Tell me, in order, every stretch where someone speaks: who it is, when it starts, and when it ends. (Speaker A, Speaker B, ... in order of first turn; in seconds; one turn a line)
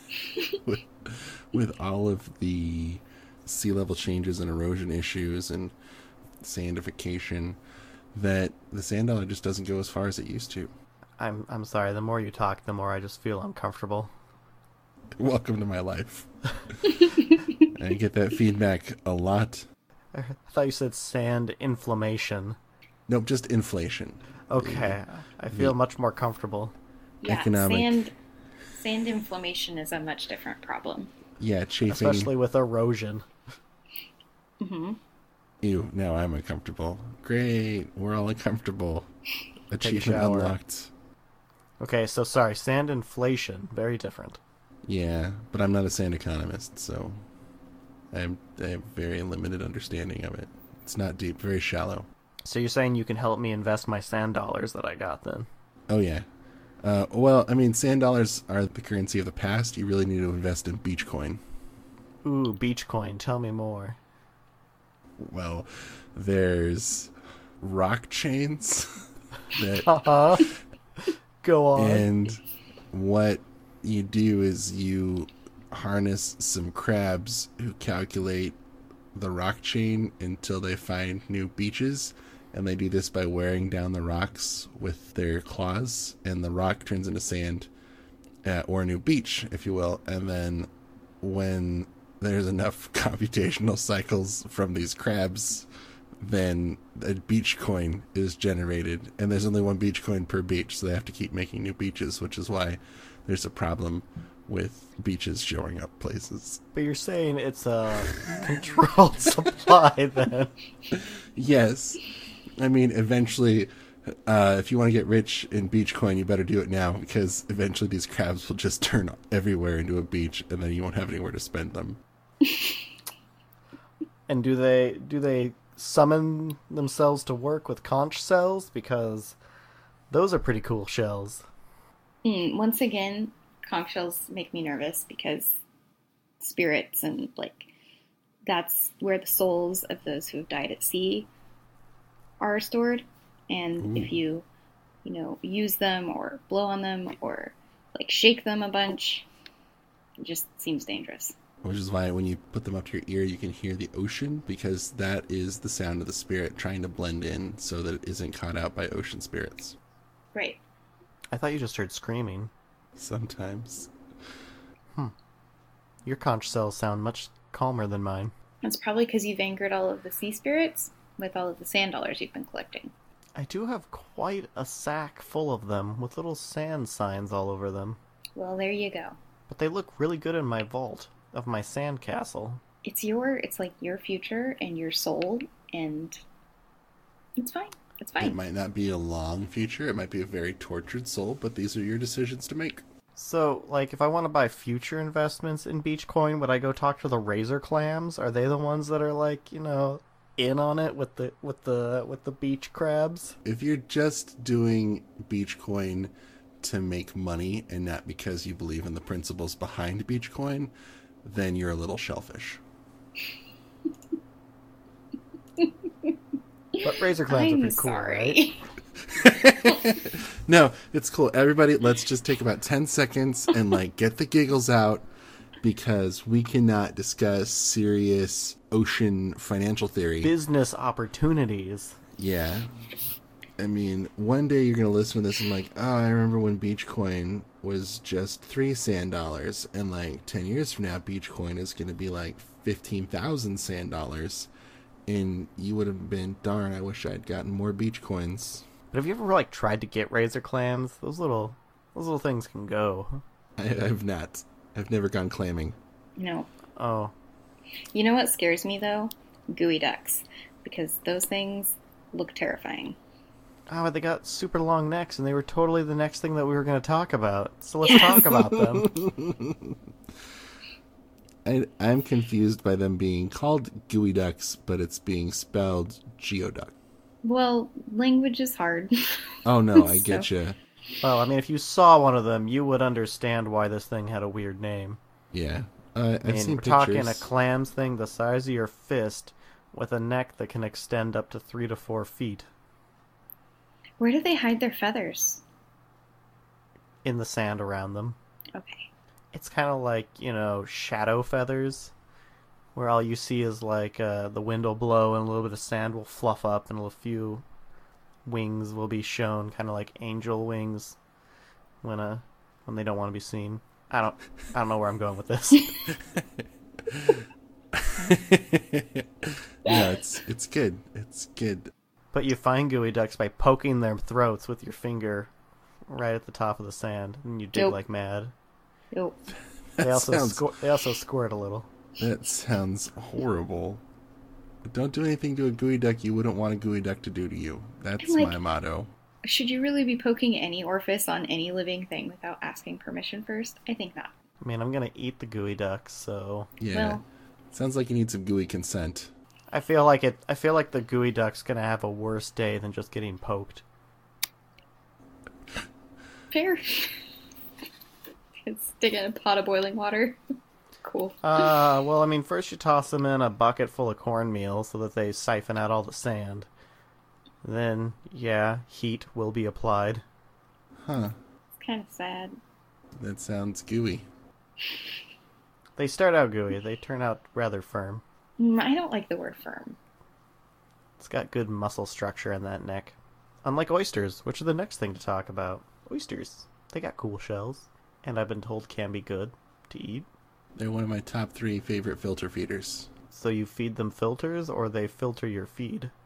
Speaker A: 0.6-5.7
Speaker A: 6.4-7.6
Speaker A: 8.1-10.7
Speaker B: 11.2-14.1
Speaker A: 15.2-16.3
Speaker C: 17.1-17.5
Speaker A: 17.7-19.7
Speaker B: 20.1-22.6
Speaker A: 23.1-25.8
Speaker B: 24.5-26.7
Speaker C: 27.2-28.1
Speaker A: 27.2-28.0
Speaker C: 28.7-31.1
Speaker A: 31.4-32.3
Speaker B: 31.9-33.2
Speaker C: 34.6-35.0
Speaker A: 35.6-39.1
Speaker A: 39.7-40.9
Speaker B: 39.8-40.6
Speaker B: 41.8-44.4
Speaker A: 44.9-47.2
Speaker A: 48.1-52.1
Speaker B: 52.4-55.5
Speaker A: 55.9-56.2
Speaker A: 56.8-61.4
Speaker B: 62.2-64.0
Speaker A: 65.2-68.9
Speaker A: 69.5-69.9
Speaker B: 69.8-70.5
Speaker B: 71.4-72.0
Speaker A: 71.8-78.6
Speaker A: 79.1-87.7
Speaker A: 88.4-90.7
Speaker A: 91.2-95.7
Speaker A: 96.2-106.6
Speaker B: 106.7-110.5
Speaker A: 111.3-112.0
Speaker A: 112.6-113.7
Speaker A: 114.3-122.0
Speaker C: 122.5-122.8
Speaker B: 124.3-129.4
Speaker B: 130.1-131.4
Speaker C: 132.2-135.6
Speaker C: 136.4-137.7
Speaker C: 138.4-141.3
Speaker C: 142.4-144.4
Speaker A: 143.8-144.2
Speaker C: 145.0-149.3
Speaker C: 150.2-151.3
Speaker A: 151.6-159.8
Speaker C: 160.3-160.6
Speaker B: 161.3-162.5
Speaker A: 162.9-163.9
Speaker B: 166.0-168.3
Speaker C: 168.6-172.9
Speaker B: 173.3-178.0
Speaker C: 178.3-179.2
Speaker B: 179.5-182.6
Speaker C: 182.8-186.2
Speaker C: 187.4-188.4
Speaker A: 188.2-192.8
Speaker B: 193.1-203.4
Speaker A: 203.4-210.7
Speaker A: 211.2-212.6
Speaker C: 216.8-218.6
Speaker B: 216.8-218.4
Speaker A: 219.1-225.1
Speaker A: 225.6-230.3
Speaker B: 230.2-232.0
Speaker A: 232.2-232.9
Speaker A: 233.6-244.5
Speaker A: 245.1-248.6
Speaker B: 248.9-253.2
Speaker A: 253.6-255.8
Speaker C: 256.2-256.5
Speaker B: 256.8-257.1
Speaker C: 257.9-263.0
Speaker B: 263.7-268.9
Speaker A: 268.4-269.7
Speaker A: 271.4-276.7
Speaker C: 277.2-278.9
Speaker A: 279.4-280.6
Speaker C: 279.8-280.2
Speaker B: 281.0-285.0
Speaker A: 285.3-287.3
Speaker B: 286.2-292.5
Speaker C: 294.0-295.4
Speaker B: 297.0-298.2
Speaker C: 298.5-298.9
Speaker B: 299.3-301.9
Speaker B: 302.7-307.4
Speaker B: 308.2-311.0
Speaker B: 311.8-315.8
Speaker A: 316.9-317.2
Speaker A: 317.8-321.7
Speaker B: 322.1-325.3
Speaker B: 325.9-328.3
Speaker C: 328.9-329.2
Speaker A: 329.7-330.4
Speaker B: 329.8-331.7
Speaker A: 332.0-333.8
Speaker A: 334.6-338.9
Speaker C: 338.0-338.4
Speaker C: 339.2-344.1
Speaker B: 344.4-346.5
Speaker A: 346.6-347.0
Speaker C: 346.7-347.0
Speaker A: 347.5-349.1
Speaker B: 349.5-353.6
Speaker C: 356.3-356.9
Speaker C: 358.4-360.2
Speaker C: 360.8-361.6
Speaker B: 361.2-366.5
Speaker B: 367.4-370.0
Speaker A: 370.8-371.1
Speaker C: 371.6-372.4
Speaker A: 373.0-374.1
Speaker B: 375.8-378.0
Speaker C: 378.4-379.8
Speaker B: 381.0-390.1
Speaker A: 390.6-392.9
Speaker B: 393.1-395.9